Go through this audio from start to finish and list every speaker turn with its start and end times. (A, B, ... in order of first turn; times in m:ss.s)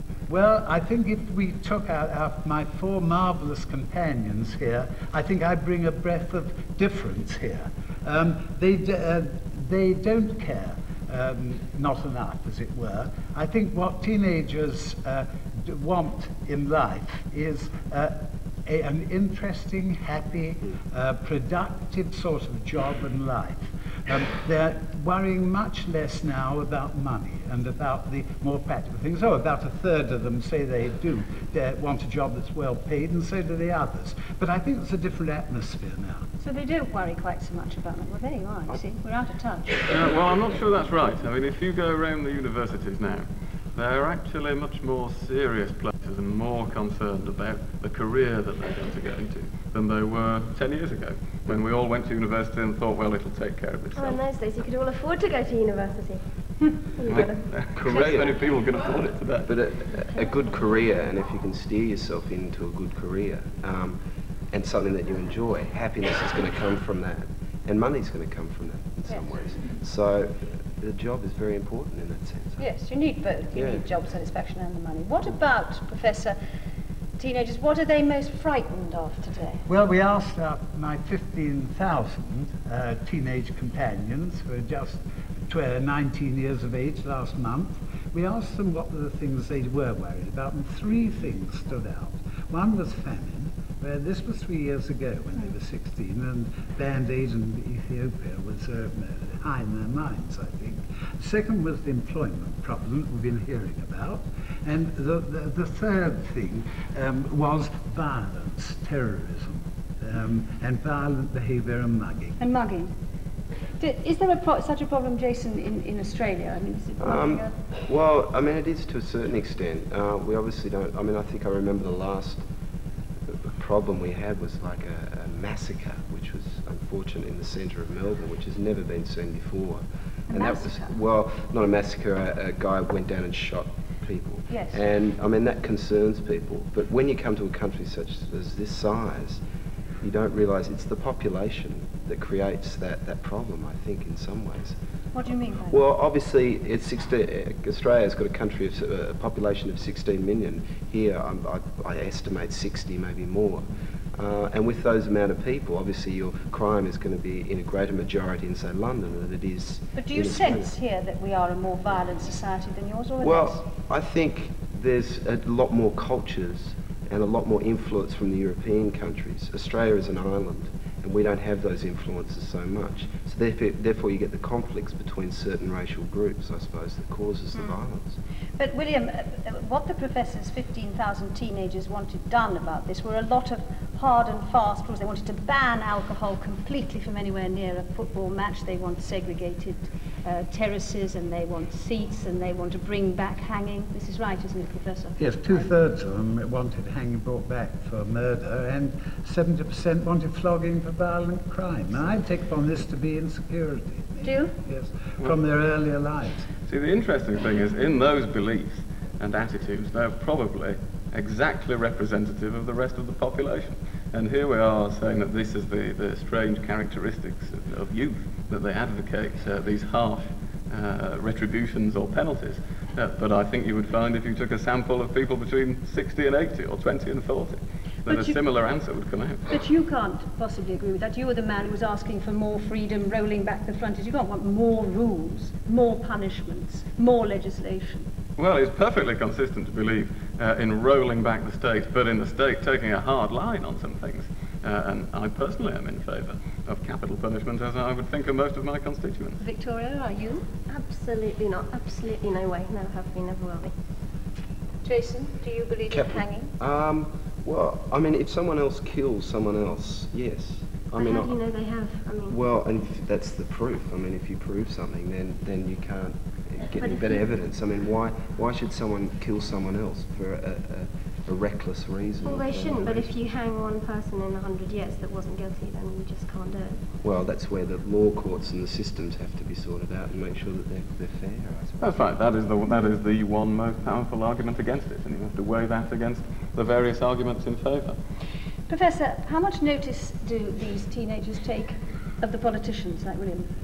0:00.3-0:36.3 A
0:36.4-0:39.8 B
0:39.9-0:54.2 C
0:54.0-0:56.2 D
0:57.0-0:57.4 D
0:57.1-0:59.5 C
0:57.8-0:58.4 E
0:59.5-1:04.0 E
1:04.5-1:12.6 E
1:12.6-1:16.4 B
1:13.6-1:13.8 E
1:17.2-1:19.6 B
1:19.7-1:52.4 A
1:52.4-1:52.9 B
1:53.8-1:57.5 B
1:57.0-2:02.4 E
2:03.3-2:19.4 E
2:10.3-2:11.0 B
2:14.5-2:14.8 B
2:20.0-2:24.8 E
2:25.1-2:25.8 B
2:25.7-2:33.6 E
2:34.2-2:40.7 E
2:40.0-2:43.6 B
2:43.2-2:58.2 E
2:57.6-2:57.8 B
2:58.6-3:15.7 B
3:15.2-3:26.5 A
3:24.2-3:24.5 B
3:26.7-3:49.5 C
3:48.1-3:48.4 B
3:49.5-3:58.1 B
3:58.4-4:09.4 C
4:09.4-4:10.5 B
4:10.7-4:13.7 D
4:14.8-4:16.5 B
4:15.9-4:21.4 E
4:21.0-4:22.4 D
4:22.3-4:33.1 E
4:26.8-4:27.2 D
4:32.2-4:36.8 D
4:37.0-4:42.0 E
4:41.8-4:48.0 C
4:48.7-4:53.5 B